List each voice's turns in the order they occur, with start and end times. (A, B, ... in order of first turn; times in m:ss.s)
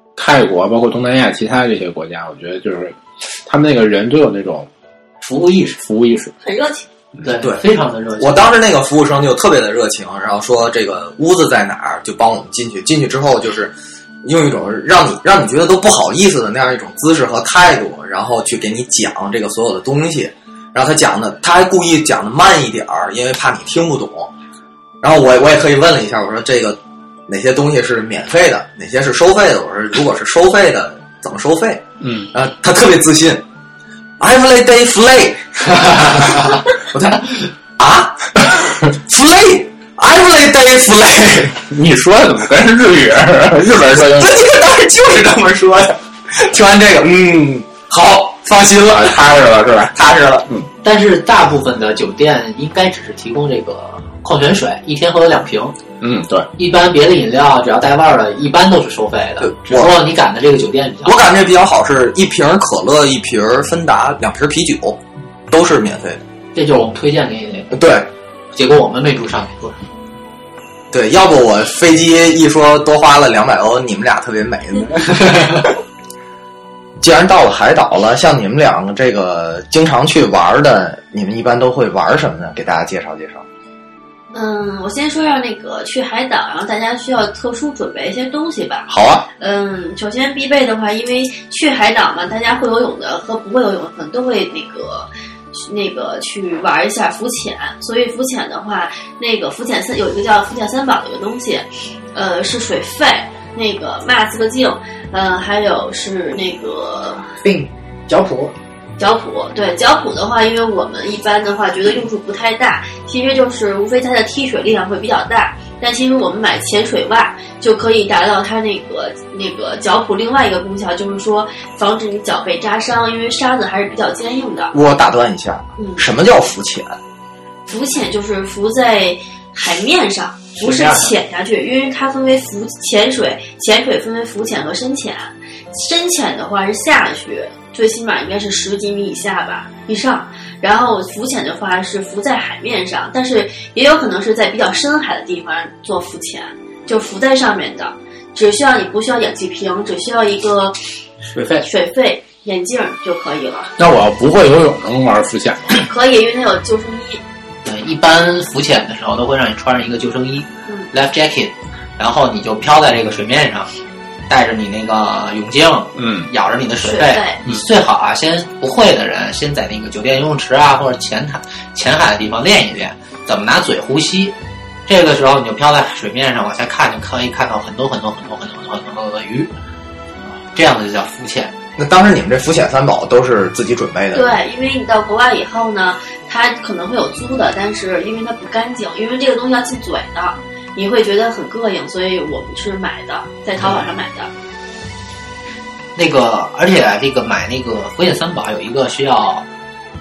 0:00.2-0:04.7 A
0:05.2-0:05.8 B
0:05.8-0:06.3 A
0:06.4-0:06.9 C
0:07.2-0:08.4 B
0:08.2-0:24.3 D
0:25.0-0:33.4 D
0:32.0-0:32.3 A
0:34.2-0:41.6 D
0:41.7-0:44.3 A
0:44.1-0:49.4 D
0:48.9-0:50.0 A
0:49.9-0:50.5 D
0:50.8-0:55.8 B
0:56.0-0:56.5 A
0:56.6-1:01.3 B
0:59.4-1:00.0 D
1:01.0-1:06.2 D
1:06.6-1:07.8 B
1:07.7-1:08.1 D
1:08.5-1:09.8 B
1:10.9-1:15.5 D
1:15.2-1:15.6 B
1:17.0-1:23.4 D
1:24.3-1:47.3 C
1:28.9-1:29.3 D
1:47.4-1:48.5 B
1:49.0-2:04.7 C
2:04.7-2:07.0 D
2:05.8-2:06.0 C
2:07.7-2:30.8 C
2:10.6-2:11.1 B
2:31.2-2:31.7 B
2:31.6-2:33.7 C
2:33.8-2:35.8 A
2:35.7-2:37.2 C
2:37.6-2:43.7 B
2:44.3-2:54.4 B
2:46.0-2:46.3 A
2:46.8-2:47.4 C
2:54.9-2:59.5 B
3:00.5-3:01.5 B
3:01.8-3:04.4 D
3:04.1-3:14.3 C
3:13.6-3:13.8 B
3:16.0-3:19.5 B